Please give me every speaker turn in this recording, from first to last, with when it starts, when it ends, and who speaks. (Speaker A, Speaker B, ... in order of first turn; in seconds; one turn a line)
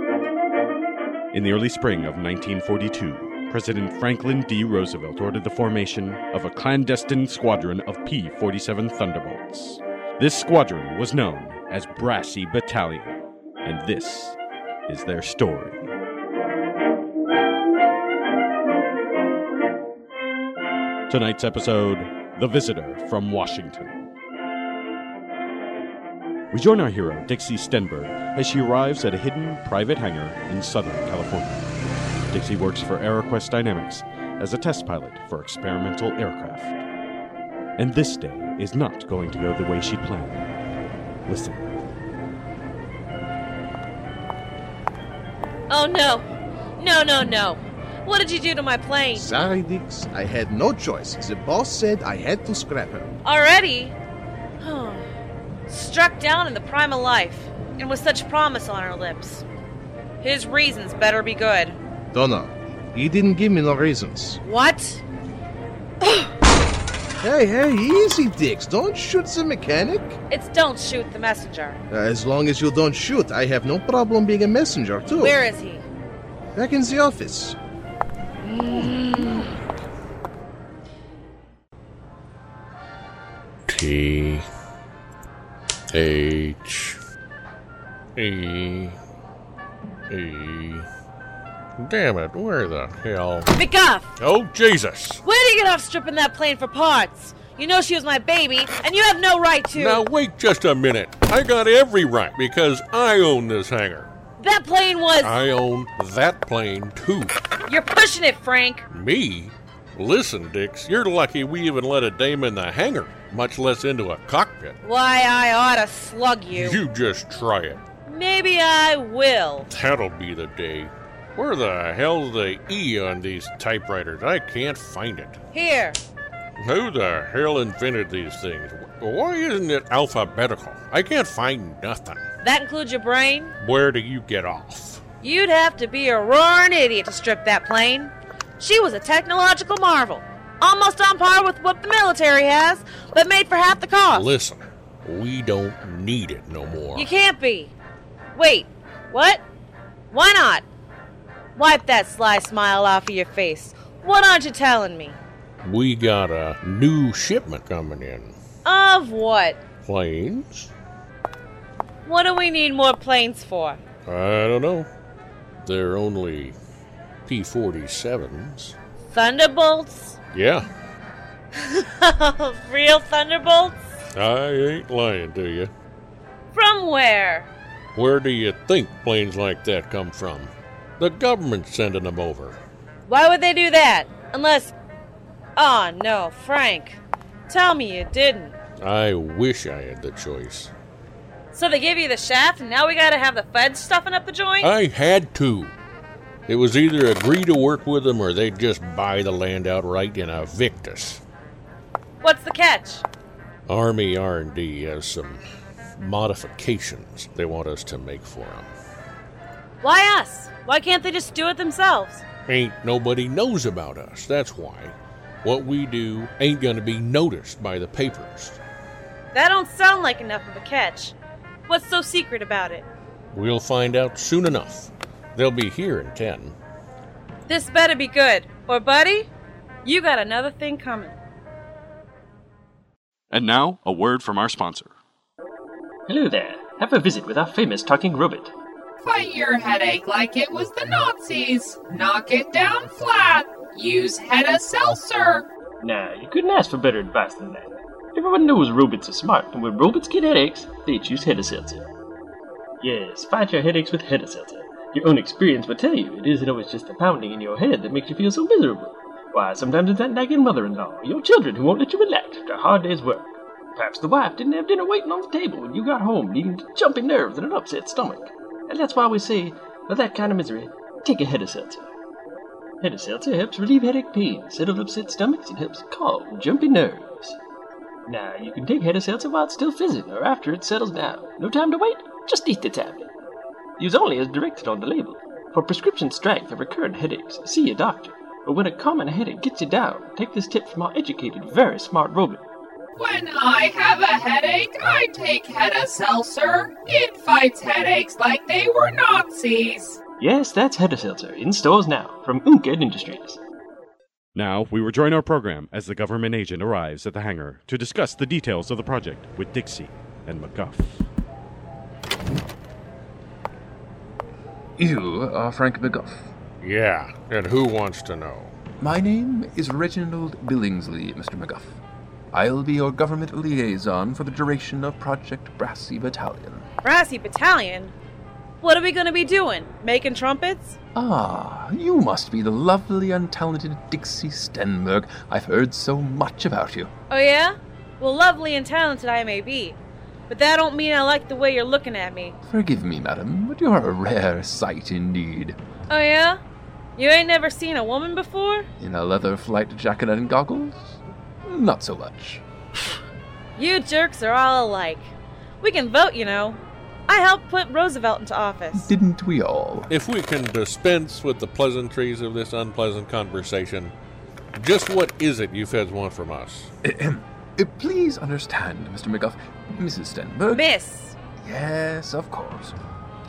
Speaker A: 1.3-14.4
Speaker A: 14.9-15.9
Speaker A: 21.1-24.0
Speaker A: 26.5-31.6
Speaker A: 32.3-36.8
Speaker A: 37.8-40.5
Speaker A: 41.3-41.7
Speaker B: 45.7-49.2
Speaker C: 49.1-53.1
Speaker B: 53.2-54.0
Speaker B: 54.6-55.0
Speaker B: 55.7-59.4
Speaker B: 60.2-61.8
Speaker C: 62.1-64.4
Speaker B: 64.4-65.0
Speaker B: 66.0-66.3
Speaker C: 67.2-70.2
Speaker B: 70.3-71.8
Speaker C: 71.9-75.4
Speaker B: 75.2-75.8
Speaker C: 76.5-77.6
Speaker B: 78.4-79.6
Speaker D: 83.7-84.5
Speaker D: 85.9-87.0
Speaker D: 88.2-89.0
Speaker D: 90.1-90.9
Speaker D: 91.8-93.5
Speaker B: 93.5-94.1
Speaker D: 94.2-95.2
Speaker B: 95.2-100.0
Speaker D: 99.7-104.1
Speaker B: 104.4-105.3
Speaker D: 105.2-107.3
Speaker B: 107.7-108.8
Speaker D: 108.9-114.8
Speaker B: 114.8-116.8
Speaker D: 116.5-117.8
Speaker B: 118.1-119.7
Speaker D: 119.7-125.4
Speaker B: 125.5-126.0
Speaker D: 126.6-132.2
Speaker B: 132.4-133.5
Speaker D: 133.6-135.0
Speaker B: 135.2-144.2
Speaker D: 144.1-147.1
Speaker B: 146.9-147.7
Speaker B: 148.3-149.4
Speaker B: 150.1-150.7
Speaker B: 151.6-155.2
Speaker D: 155.6-158.3
Speaker B: 158.7-159.6
Speaker D: 159.8-160.7
Speaker B: 162.1-163.8
Speaker D: 164.1-164.9
Speaker D: 165.7-166.6
Speaker D: 167.3-168.8
Speaker B: 169.1-170.2
Speaker D: 170.3-170.7
Speaker B: 171.6-173.8
Speaker D: 174.2-175.7
Speaker B: 176.5-177.5
Speaker D: 177.9-182.6
Speaker B: 183.1-184.7
Speaker B: 185.6-188.6
Speaker D: 188.8-190.7
Speaker B: 191.5-194.7
Speaker D: 194.6-195.7
Speaker D: 196.5-201.2
Speaker B: 202.2-203.0
Speaker D: 203.7-205.4
Speaker D: 206.0-208.7
Speaker B: 209.8-212.2
Speaker D: 212.5-218.6
Speaker B: 219.3-221.2
Speaker B: 221.7-222.9
Speaker D: 223.3-226.6
Speaker B: 227.5-229.3
Speaker B: 229.8-231.2
Speaker A: 233.3-234.9
Speaker E: 236.1-238.5
Speaker F: 239.0-245.5
Speaker E: 245.8-251.9
Speaker E: 252.8-271.9
Speaker E: 272.8-277.4
Speaker E: 278.1-283.1
Speaker E: 283.8-292.4
Speaker F: 293.0-300.0
Speaker E: 300.2-303.4
Speaker A: 304.4-311.1
Speaker G: 314.8-316.3
Speaker D: 316.6-318.6
Speaker G: 318.8-321.8
Speaker G: 322.3-326.6
Speaker B: 326.8-327.9
Speaker B: 328.6-330.8
Speaker G: 330.9-336.9
Speaker B: 337.1-339.8
Speaker B: 340.3-342.4
Speaker G: 342.5-345.6
Speaker B: 345.9-346.4
Speaker B: 347.0-348.7
Speaker G: 348.8-352.4
Speaker B: 353.6-355.1
Speaker B: 355.6-358.9
Speaker G: 358.7-359.9
Speaker D: 359.9-363.9
Speaker D: 364.6-366.7
Speaker G: 366.8-370.6
Speaker B: 370.5-371.1
Speaker G: 371.4-372.8